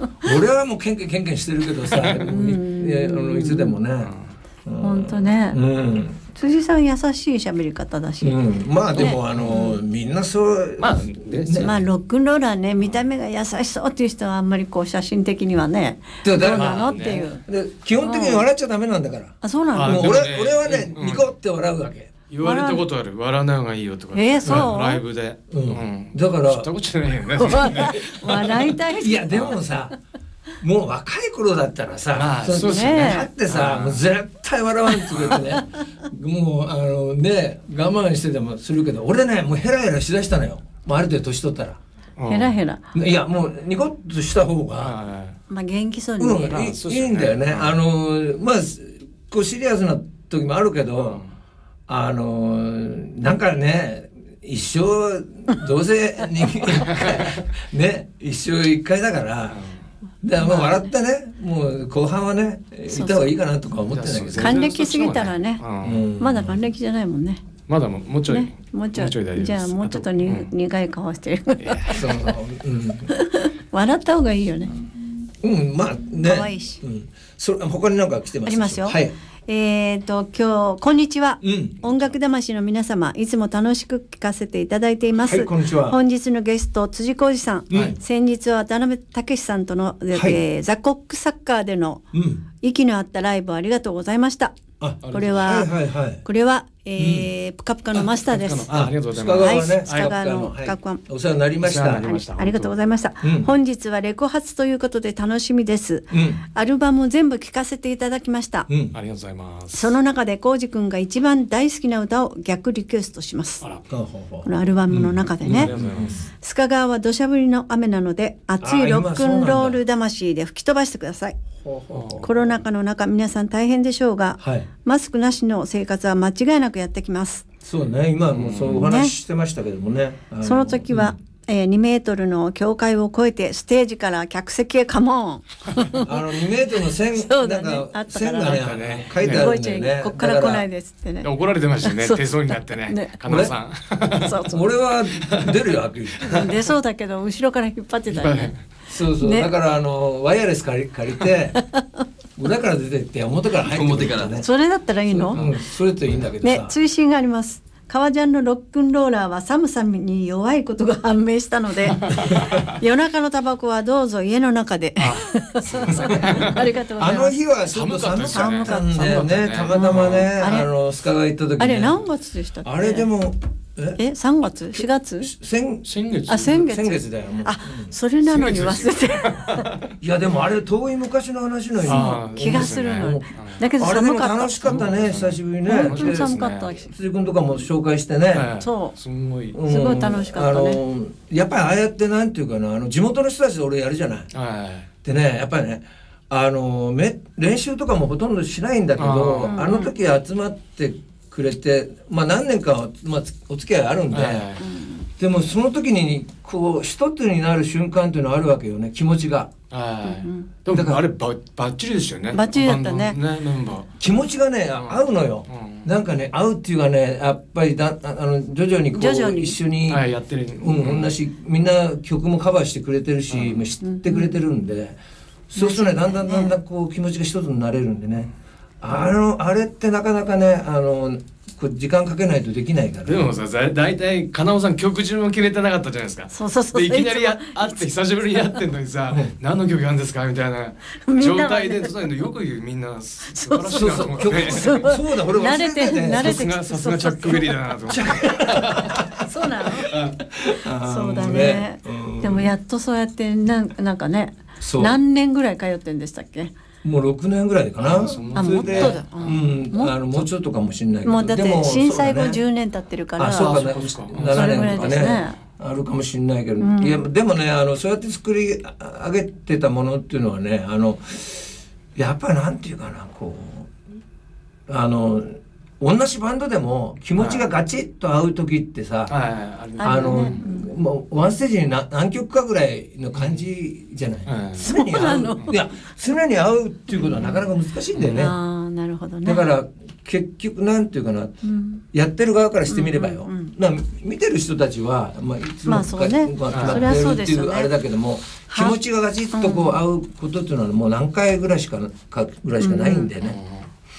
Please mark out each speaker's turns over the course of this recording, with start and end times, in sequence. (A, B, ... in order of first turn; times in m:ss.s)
0:00.2-0:04.1 A
0:02.2-0:03.8 B
0:04.6-0:06.2 A
0:04.8-0:05.6 B
0:06.3-0:09.8 B
0:08.2-0:11.7 A
0:09.0-0:09.6 C
0:10.8-0:11.8 C
0:11.6-0:17.4 B
0:16.2-0:22.1 A
0:16.5-0:17.3 C
0:18.0-0:18.4 B
0:19.4-0:20.2 B
0:19.7-0:21.2 C
0:22.3-0:28.5 C
0:22.4-0:22.8 B
0:24.1-0:25.0 B
0:25.5-0:26.7 A
0:27.4-0:29.5 B
0:27.5-0:29.9 A
0:30.6-0:41.8 A
0:32.1-0:34.0 C
0:32.6-0:33.3 B
0:42.2-0:42.6 C
0:42.3-0:42.8 B
0:42.9-0:44.9 A
0:44.8-0:45.4 C
0:45.5-0:46.6 B
0:46.2-0:51.2 A
0:46.4-0:47.7 C
0:51.0-0:51.3 C
0:51.9-0:59.6 A
0:56.9-0:57.4 C
0:59.5-0:59.8 C
1:00.2-1:04.7 A
1:00.4-1:00.8 B
1:02.9-1:03.3 B
1:03.9-1:06.0 C
1:04.4-1:05.6 B
1:05.8-1:06.6 A
1:06.2-1:07.4 B
1:07.7-1:10.5 C
1:08.3-1:12.3 B
1:11.6-1:12.0 C
1:11.9-1:13.1 A
1:13.1-1:14.7 B
1:15.4-1:19.1 A
1:16.2-1:16.8 B
1:18.4-1:32.1 B
1:21.4-1:22.1 A
1:25.2-1:26.0 A
1:27.7-1:28.0 A
1:30.1-1:30.4 A
1:32.1-1:32.4 A
1:32.6-1:34.6 B
1:34.8-1:36.2 A
1:35.0-1:35.6 C
1:35.1-1:35.7 B
1:36.2-1:38.7 B
1:37.0-1:37.3 A
1:38.2-1:40.2 C
1:38.7-1:42.1 A
1:39.4-1:41.0 B
1:41.6-1:42.7 C
1:42.0-1:48.7 B
1:43.2-1:43.5 A
1:46.1-1:46.4 A
1:48.7-1:49.0 A
1:48.9-1:50.0 C
1:49.7-1:53.6 B
1:53.9-1:56.2 A
1:54.4-1:55.7 B
1:55.4-1:56.2 C
1:56.4-2:01.4 B
1:58.6-1:59.8 A
2:01.6-2:02.4 A
2:01.9-2:02.2 C
2:02.2-2:07.4 B
2:04.4-2:04.7 A
2:07.6-2:11.2 A
2:08.3-2:08.8 C
2:08.7-2:09.1 B
2:10.4-2:16.2 B
2:15.9-2:20.6 A
2:17.1-2:18.6 B
2:18.4-2:19.5 C
2:19.2-2:21.3 B
2:21.2-2:24.4 C
2:21.8-2:23.1 B
2:23.3-2:23.5 A
2:24.1-2:24.6 B
2:24.4-2:26.5 A
2:25.2-2:25.6 C
2:26.2-2:26.5 C
2:26.2-2:28.5 B
2:28.1-2:28.6 C
2:28.9-2:31.6 A
2:29.2-2:29.5 B
2:32.4-2:34.5 A
2:33.8-2:34.3 C
2:34.4-2:35.4 B
2:35.1-2:36.7 A
2:36.4-2:47.4 B
2:42.1-2:42.6 C
2:45.0-2:46.6 C
2:45.8-2:52.0 A
2:47.7-2:50.3 C
2:48.3-2:50.7 B
2:51.6-2:53.1 B
2:52.6-2:54.0 A
2:54.0-2:55.3 B
2:55.2-2:55.8 A
2:55.8-2:56.5 C
2:56.3-2:59.7 B
2:56.4-2:57.9 A
2:58.2-2:59.7 C
3:00.0-3:08.5 A
3:01.8-3:03.6 C
3:01.8-3:04.9 B
3:04.6-3:06.8 C
3:05.6-3:06.9 B
3:08.3-3:09.6 C
3:08.6-3:08.9 B
3:09.5-3:14.3 A
3:09.6-3:10.8 B
3:14.3-3:14.9 C
3:15.0-3:24.5 A
3:19.0-3:19.6 C
3:19.4-3:19.9 B
3:24.1-3:24.7 C
3:24.6-3:25.1 B
3:25.2-3:29.5 A
3:29.7-3:33.9 C
3:30.0-3:30.5 B
3:30.7-3:31.0 A
3:32.3-3:33.2 B
3:34.0-3:40.0 A
3:34.8-3:35.9 C
3:38.9-3:39.6 B
3:39.9-3:41.1 C
3:40.6-3:45.0 A
3:43.3-3:43.6 C
3:43.8-3:44.4 B
3:45.5-3:48.3 A
3:45.6-3:46.5 B
3:48.8-3:53.3 A
3:53.0-4:04.8 C
3:56.3-3:57.8 B
4:00.9-4:02.1 B
4:03.3-4:07.6 B
4:03.7-4:06.4 A
4:06.2-4:08.9 C
4:07.9-4:12.5 A
4:09.2-4:10.0 B
4:09.9-4:10.1 C
4:10.8-4:16.5 B
4:14.6-4:15.0 A
4:16.8-4:22.4 A
4:17.8-4:19.0 C
4:17.9-4:20.0 B
4:21.0-4:25.4 B
4:23.2-4:33.7 A
4:23.3-4:24.8 C
4:26.6-4:27.0 B
4:34.7-4:39.1 A
4:37.2-4:37.5 C
4:39.1-4:40.4 C
4:39.8-4:40.7 B
4:39.8-4:48.3 A
4:43.1-4:43.4 C
4:44.3-4:44.8 C
4:44.6-4:45.6 B
4:46.9-4:47.4 B
4:47.9-4:48.3 C
4:48.1-4:49.5 B
4:49.2-4:51.4 A
4:51.4-4:51.8 B
4:51.9-5:03.4 A
4:52.7-4:53.5 B
4:55.7-4:57.7 B
4:56.5-4:56.9 C
4:58.5-4:58.8 B
4:59.3-4:59.8 B
5:02.6-5:03.1 B
5:03.2-5:03.7 C